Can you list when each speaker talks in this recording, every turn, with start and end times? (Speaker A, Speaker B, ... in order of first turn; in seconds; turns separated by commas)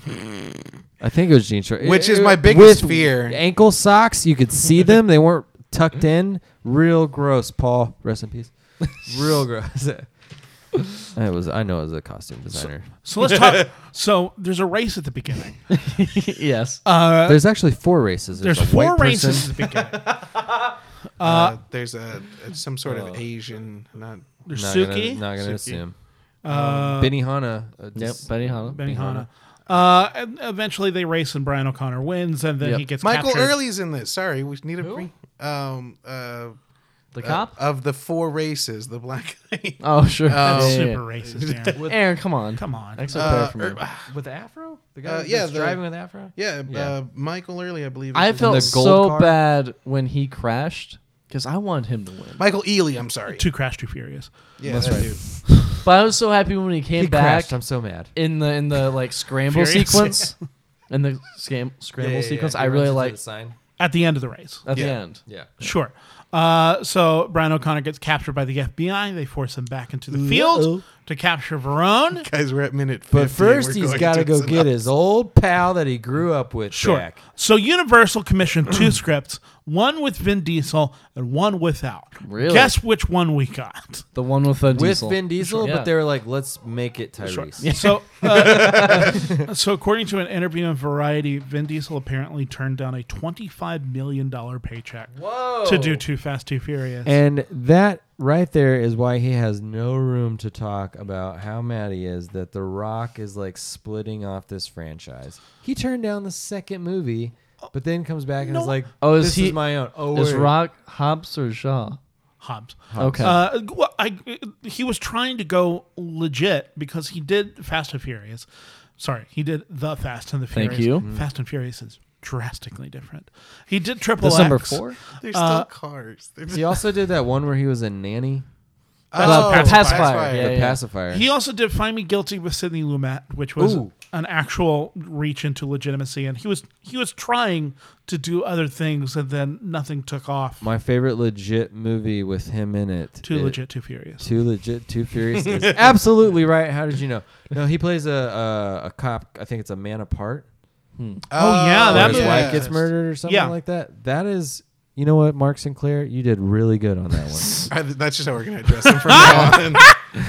Speaker A: 1.0-10.1, Speaker B: 1.8-3.4, Speaker A: 11.1-12.9, Speaker C: 12.9-15.8, Speaker D: 15.7-16.8, Speaker C: 16.9-17.4, Speaker A: 17.2-19.7, Speaker C: 18.4-20.1, Speaker C: 21.2-21.6, Speaker B: 21.2-24.4, Speaker A: 22.9-23.2, Speaker C: 24.4-25.3, Speaker A: 24.5-29.3, Speaker B: 25.4-25.8, Speaker C: 26.4-27.1, Speaker D: 27.9-28.8, Speaker C: 28.8-33.5, Speaker B: 33.0-36.6, Speaker D: 34.8-35.1, Speaker D: 37.1-37.6, Speaker B: 37.2-41.8, Speaker D: 39.8-41.0, Speaker C: 40.4-41.9, Speaker D: 41.8-43.8, Speaker C: 42.6-43.2, Speaker B: 43.1-44.1, Speaker A: 44.1-47.0, Speaker B: 45.0-48.8, Speaker D: 48.1-52.4, Speaker A: 48.4-49.4, Speaker B: 52.4-53.5, Speaker C: 53.3-54.3, Speaker B: 54.6-55.2, Speaker A: 54.7-55.2, Speaker D: 54.7-57.6, Speaker C: 55.5-55.7, Speaker A: 57.0-58.1, Speaker D: 58.1-60.4, Speaker C: 59.5-60.4, Speaker D: 60.9-63.2, Speaker A: 62.0-63.6, Speaker C: 63.8-64.7, Speaker D: 64.7-65.2, Speaker B: 64.7-65.0, Speaker A: 65.2-65.6, Speaker C: 65.6-72.3, Speaker B: 72.2-74.8, Speaker A: 73.1-77.2, Speaker C: 76.7-84.1, Speaker D: 82.2-82.7, Speaker D: 84.2-85.9, Speaker A: 84.7-87.7, Speaker C: 87.2-97.2, Speaker D: 87.6-89.1, Speaker A: 88.7-89.4, Speaker D: 95.2-96.0, Speaker A: 97.0-110.6, Speaker C: 108.4-108.8, Speaker D: 109.0-112.0, Speaker C: 112.4-118.5, Speaker A: 112.9-113.4, Speaker D: 113.0-113.4, Speaker C: 119.0-125.7, Speaker D: 120.5-121.1, Speaker D: 124.2-125.0, Speaker B: 125.2-126.8, Speaker A: 126.5-128.5, Speaker B: 129.1-130.6, Speaker C: 129.2-130.3, Speaker D: 129.2-130.8, Speaker A: 130.3-131.3, Speaker C: 131.1-140.7, Speaker A: 133.6-133.9, Speaker A: 140.6-143.6, Speaker C: 143.2-144.3, Speaker A: 144.2-150.4, Speaker D: 151.0-151.3, Speaker B: 151.3-152.8, Speaker C: 151.3-153.6, Speaker A: 151.9-157.7, Speaker B: 157.7-159.9, Speaker C: 159.1-160.0, Speaker A: 159.2-159.5